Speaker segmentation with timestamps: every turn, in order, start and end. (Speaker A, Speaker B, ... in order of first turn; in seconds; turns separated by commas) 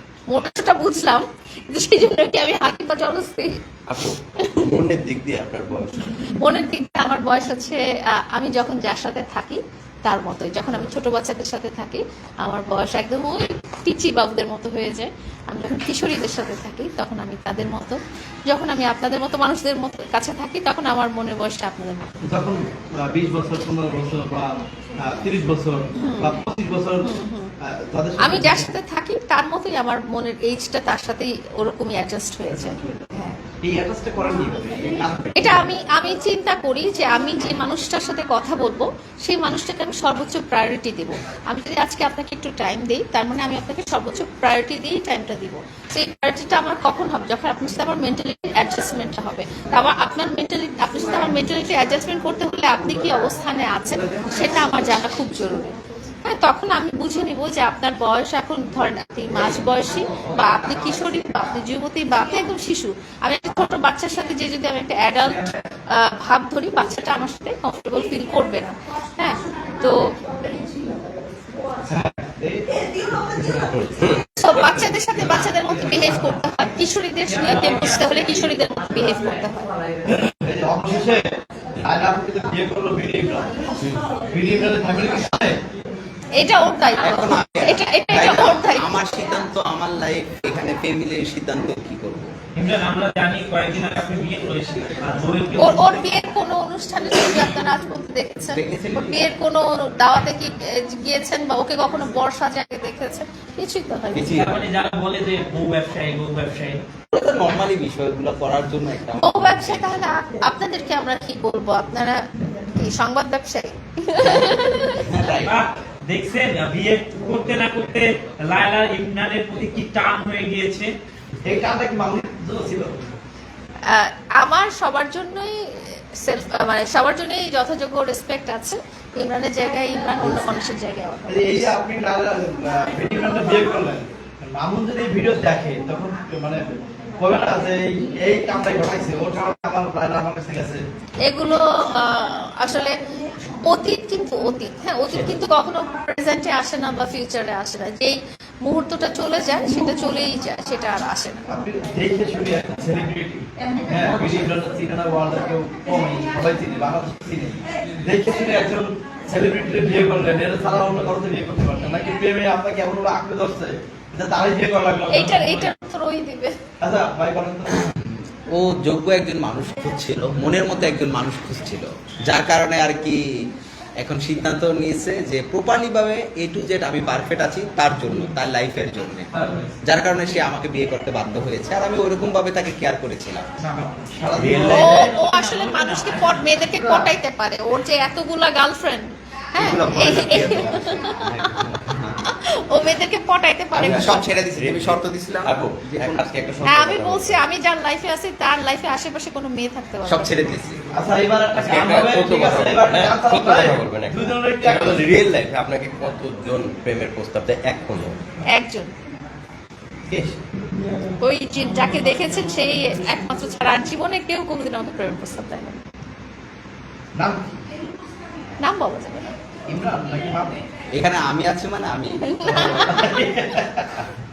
Speaker A: 0.3-3.5, Speaker B: 3.9-6.0, Speaker A: 6.2-22.1, Speaker C: 22.2-27.1, Speaker A: 25.9-26.4, Speaker A: 27.0-27.5, Speaker C: 27.6-28.7, Speaker A: 28.2-33.4, Speaker C: 32.5-35.7, Speaker A: 35.3-70.0, Speaker C: 54.0-54.8, Speaker D: 59.3-61.4, Speaker C: 65.2-65.5, Speaker C: 71.8-72.6, Speaker B: 73.5-74.2, Speaker A: 74.4-79.7, Speaker C: 74.8-76.3, Speaker E: 77.3-78.9, Speaker C: 80.0-83.6, Speaker B: 83.8-84.1, Speaker C: 84.3-85.6, Speaker A: 86.3-88.9, Speaker D: 87.0-92.3, Speaker E: 92.5-96.1, Speaker A: 95.6-104.3, Speaker D: 98.5-99.2, Speaker D: 104.1-104.5, Speaker E: 104.3-106.8, Speaker D: 107.1-109.9, Speaker A: 109.2-112.2, Speaker A: 112.7-115.0, Speaker D: 114.2-115.5, Speaker E: 115.4-120.9, Speaker C: 121.4-123.1, Speaker A: 123.9-131.7, Speaker C: 131.3-140.8, Speaker A: 141.2-143.0, Speaker A: 143.6-151.6, Speaker C: 145.1-145.3, Speaker C: 151.5-165.7, Speaker A: 165.1-166.6, Speaker C: 166.8-167.9, Speaker D: 168.1-173.2, Speaker D: 174.0-179.3, Speaker C: 179.3-179.7, Speaker D: 179.8-183.4, Speaker E: 183.7-186.7, Speaker C: 184.1-185.1, Speaker B: 184.4-184.7, Speaker A: 184.7-191.5, Speaker C: 186.8-187.1, Speaker D: 189.6-192.3, Speaker A: 192.2-194.2, Speaker D: 193.7-196.2, Speaker B: 194.6-197.4, Speaker A: 196.6-200.3, Speaker D: 200.0-200.8, Speaker C: 200.9-205.1, Speaker B: 201.5-208.2, Speaker A: 208.5-208.9, Speaker C: 210.1-210.4, Speaker A: 211.2-215.8, Speaker C: 217.1-217.6, Speaker A: 218.6-219.3, Speaker C: 219.7-220.6, Speaker D: 220.9-222.2, Speaker A: 222.3-223.2, Speaker C: 222.4-224.0